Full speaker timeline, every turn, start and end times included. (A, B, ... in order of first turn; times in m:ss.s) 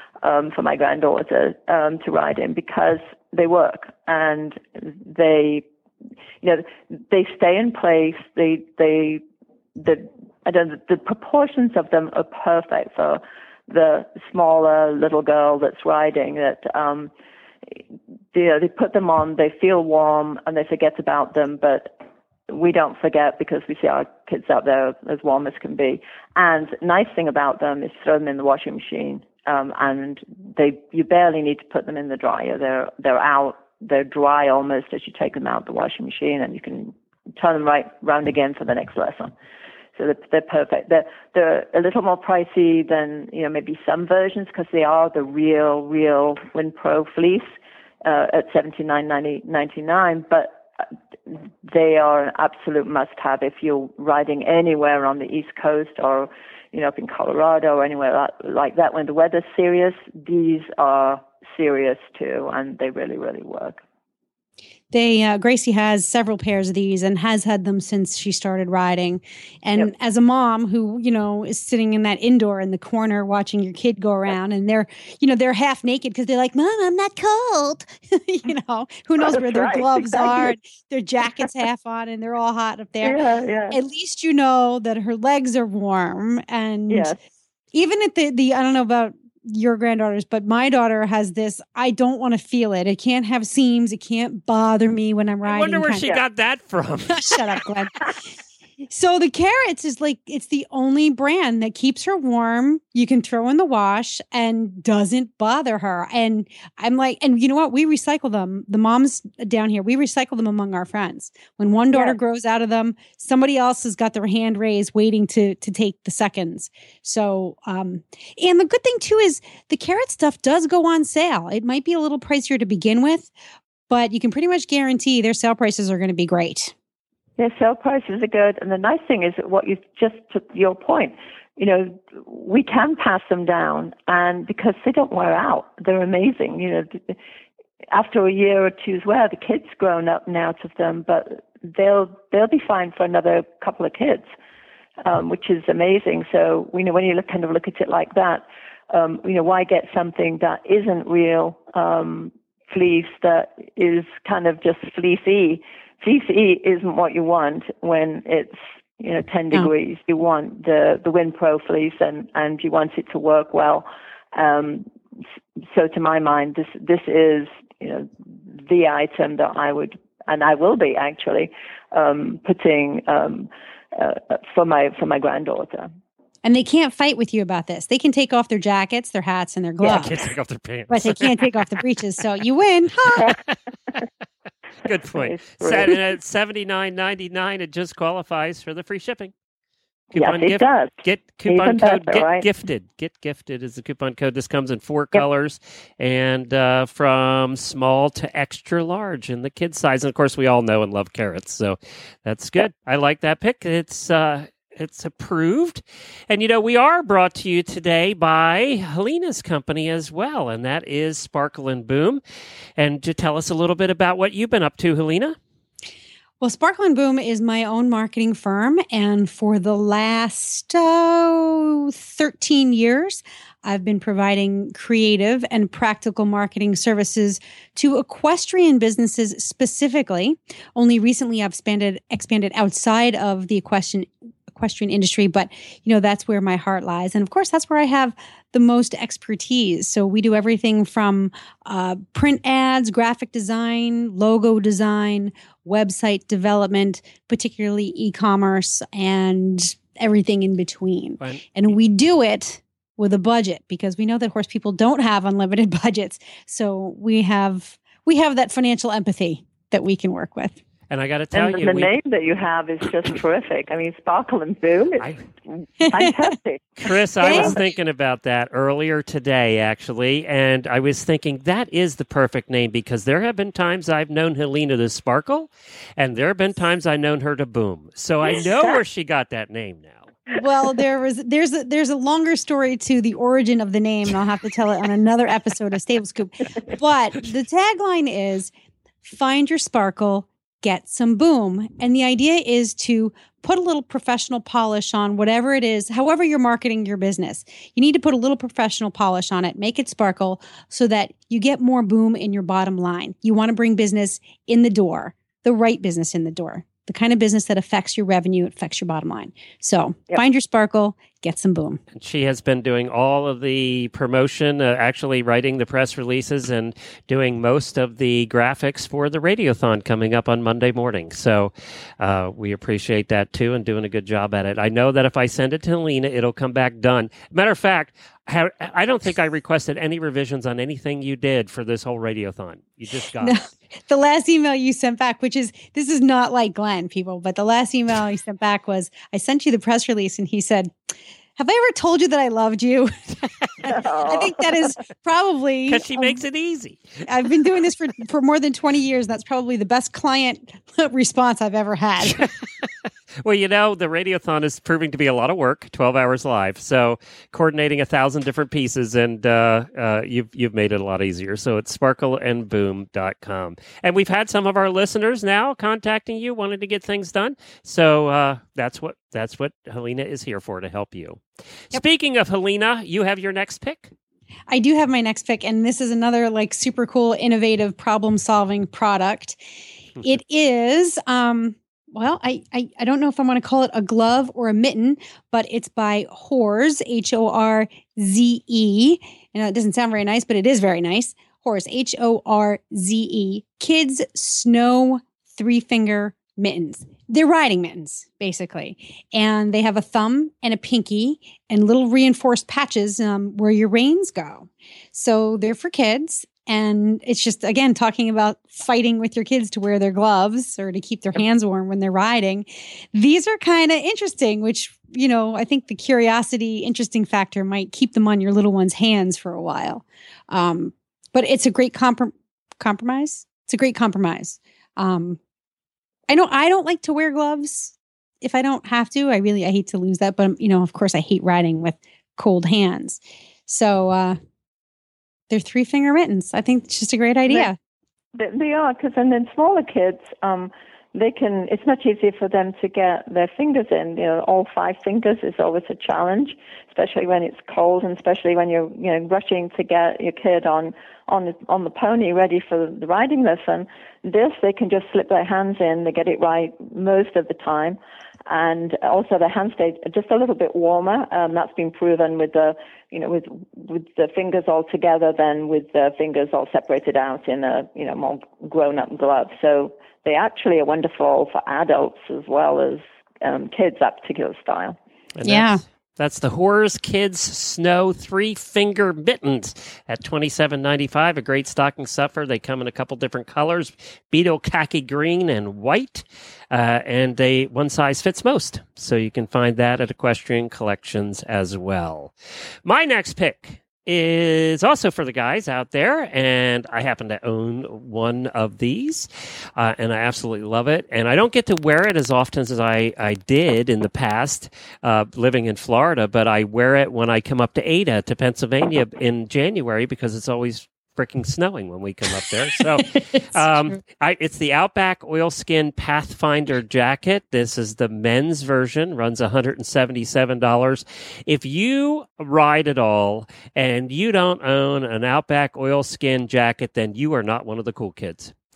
0:00.2-0:05.6 A
0:06.4-0:09.2 A
0:09.8-0:17.1 A
0:18.3-0:21.9 A
0:22.5-0:39.3 A
0:40.0-0:47.5 A
0:48.0-0:50.6 A
0:51.3-1:03.8 A
1:04.9-1:27.1 B
1:19.2-1:20.5 A
1:23.0-1:23.8 A
1:26.9-1:27.2 A
1:27.7-1:36.2 B
1:35.4-1:37.5 C
1:37.2-1:38.0 B
1:38.8-2:03.3 B
1:51.9-1:52.2 A
2:03.9-2:06.7 B
2:07.4-2:17.2 A
2:17.9-2:24.3 A
2:25.0-2:44.9 A
2:45.7-2:55.9 A
2:56.4-3:00.2 B
2:59.8-3:01.5 C
3:00.9-3:03.3 B
3:04.8-3:09.3 C
3:05.2-3:05.9 A
3:10.1-3:32.2 C
3:10.1-3:10.9 A
3:11.5-3:12.4 A
3:32.8-3:35.4 C
3:36.4-4:20.6 B
4:11.2-4:11.5 C
4:20.9-4:21.9 C
4:21.3-4:27.6 A
4:25.8-4:26.1 B
4:26.8-4:40.2 C
4:27.2-4:27.6 B
4:40.3-4:48.5 B
4:49.0-5:11.8 B
5:11.9-5:33.5 C
5:33.2-5:46.2 B
5:43.6-5:44.4 A
5:45.7-5:47.0 C
5:47.0-5:52.2 B
5:52.0-5:52.6 C
5:53.2-6:13.9 C
6:14.5-6:19.4 B
6:20.0-7:05.2 B
7:06.1-7:14.2 B
7:15.3-7:17.6 B
7:18.1-7:54.8 A
7:55.1-8:12.1 C
7:55.2-7:55.6 B
8:12.6-8:48.4 C
8:33.0-8:33.5 B